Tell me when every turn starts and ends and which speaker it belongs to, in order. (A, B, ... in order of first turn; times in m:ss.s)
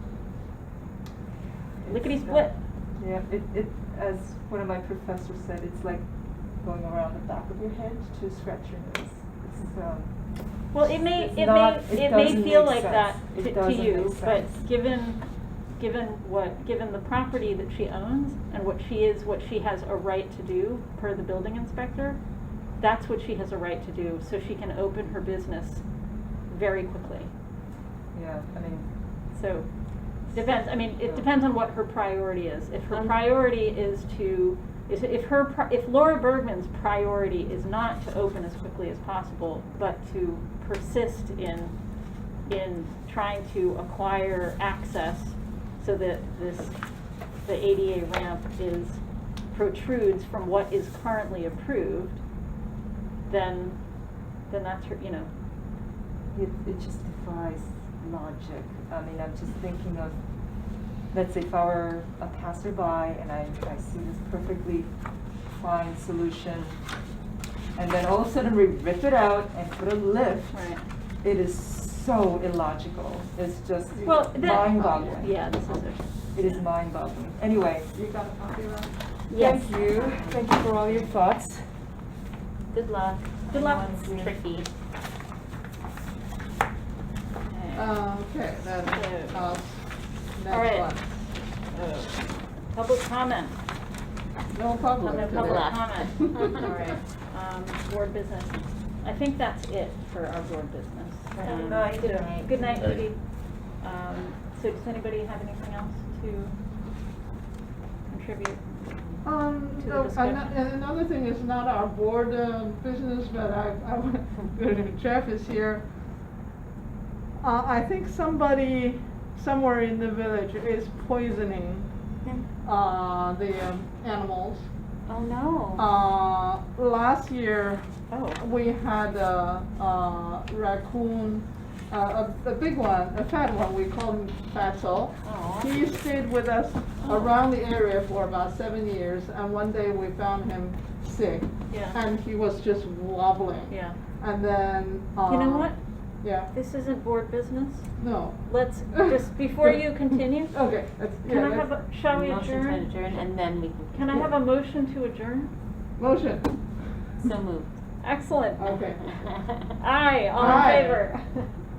0:01.8-0:10.1 A
0:01.9-0:02.6 B
0:10.7-0:22.2 B
0:11.1-0:14.5 A
0:22.8-0:25.8 B
0:26.5-0:27.3 B
0:28.1-0:28.9 A
0:29.3-0:29.7 B
0:30.3-0:41.8 B
0:42.5-0:46.8 B
0:47.4-0:49.0 B
0:49.5-0:52.2 B
0:53.3-0:53.8 B
0:54.5-0:55.3 B
0:56.3-1:00.2 A
1:01.1-1:04.9 A
1:05.6-1:06.8 A
1:07.8-1:10.7 A
1:10.5-1:10.8 B
1:11.2-1:15.4 A
1:13.9-1:15.0 C
1:14.0-1:16.6 B
1:16.3-1:18.0 A
1:17.9-1:18.9 C
1:19.3-1:21.0 D
1:19.3-1:21.7 A
1:19.4-1:19.8 B
1:22.7-1:24.7 D
1:23.5-1:24.1 B
1:23.9-1:24.3 A
1:27.5-1:28.0 B
1:27.8-1:31.1 C
1:28.8-1:29.6 B
1:30.5-1:33.6 B
1:34.5-1:36.9 C
1:35.0-1:43.2 B
1:35.0-1:37.0 D
1:41.4-1:43.0 D
1:41.4-1:42.4 A
1:43.8-1:46.6 B
1:48.1-1:49.2 B
1:49.2-1:55.8 C
1:49.8-1:50.6 B
1:57.4-2:01.9 C
2:02.6-2:04.7 C
2:05.1-2:05.8 D
2:05.8-2:25.7 C
2:08.1-2:08.4 B
2:15.2-2:15.7 B
2:17.0-2:17.3 B
2:21.7-2:22.0 B
2:23.7-2:24.0 B
2:25.3-2:25.8 B
2:26.2-2:26.5 C
2:26.5-2:27.9 B
2:28.0-2:31.8 C
2:28.4-2:30.6 B
2:31.2-2:32.9 B
2:32.1-2:34.3 D
2:33.9-2:35.5 B
2:36.0-2:36.6 C
2:37.2-2:37.7 D
2:38.0-2:38.8 B
2:38.6-2:39.3 C
2:39.7-2:41.5 B
2:40.4-2:41.0 D
2:40.4-2:41.0 C